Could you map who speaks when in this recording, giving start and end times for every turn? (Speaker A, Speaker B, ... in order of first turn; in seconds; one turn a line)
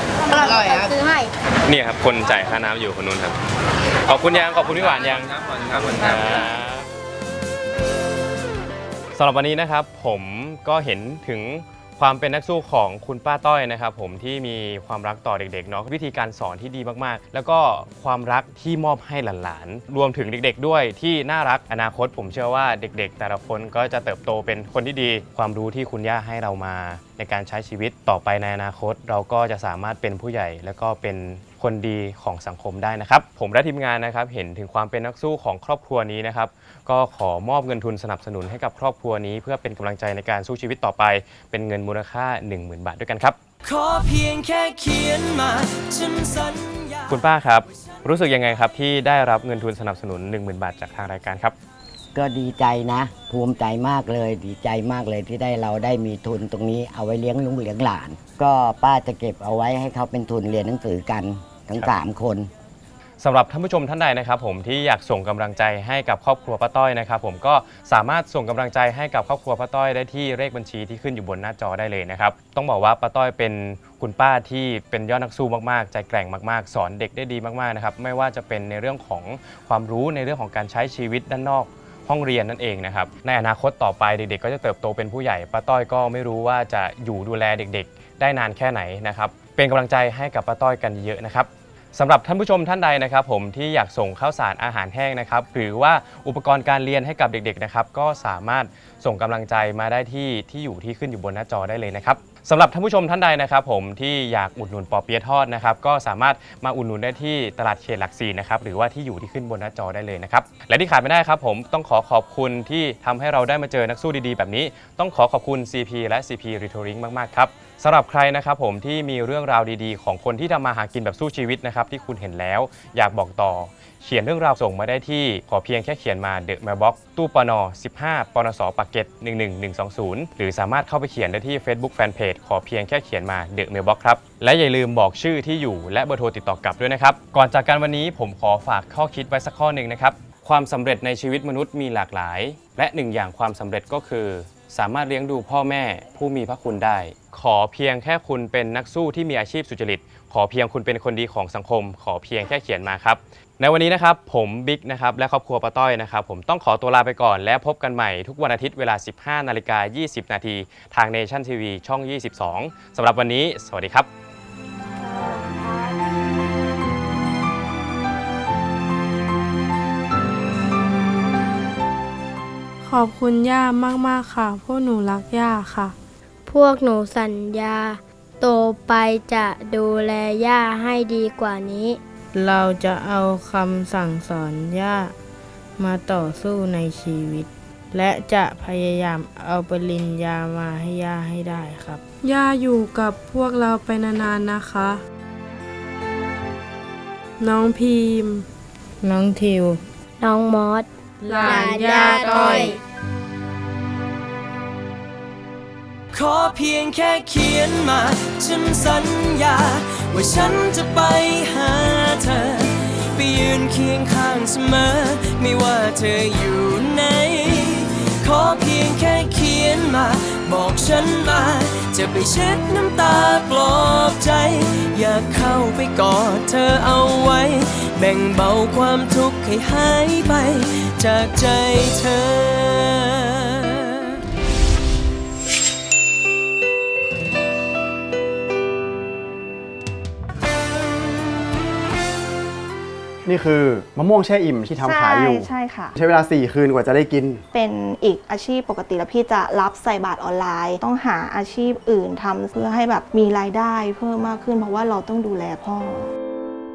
Speaker A: 0.4-1.2
Speaker B: 1.6-3.4
Speaker B: 4.0-6.9
Speaker B: 9.1-43.4
Speaker C: 43.6-47.3
Speaker B: 47.1-51.5
Speaker D: 52.1-62.5
Speaker B: 63.2-164.1
Speaker E: 172.8-175.9
Speaker A: 176.4-182.0
Speaker F: 182.3-185.1
Speaker F: 185.8-192.0
Speaker E: 192.2-195.0
Speaker E: 197.4-198.4
Speaker F: 199.0-199.8
Speaker A: 200.2-200.9
Speaker F: 201.2-202.6
Speaker E: 201.2-202.8
Speaker A: 201.4-202.8
Speaker C: 206.1-233.8
Speaker G: 243.2-247.4
Speaker H: 244.8-246.0
Speaker H: 247.5-256.1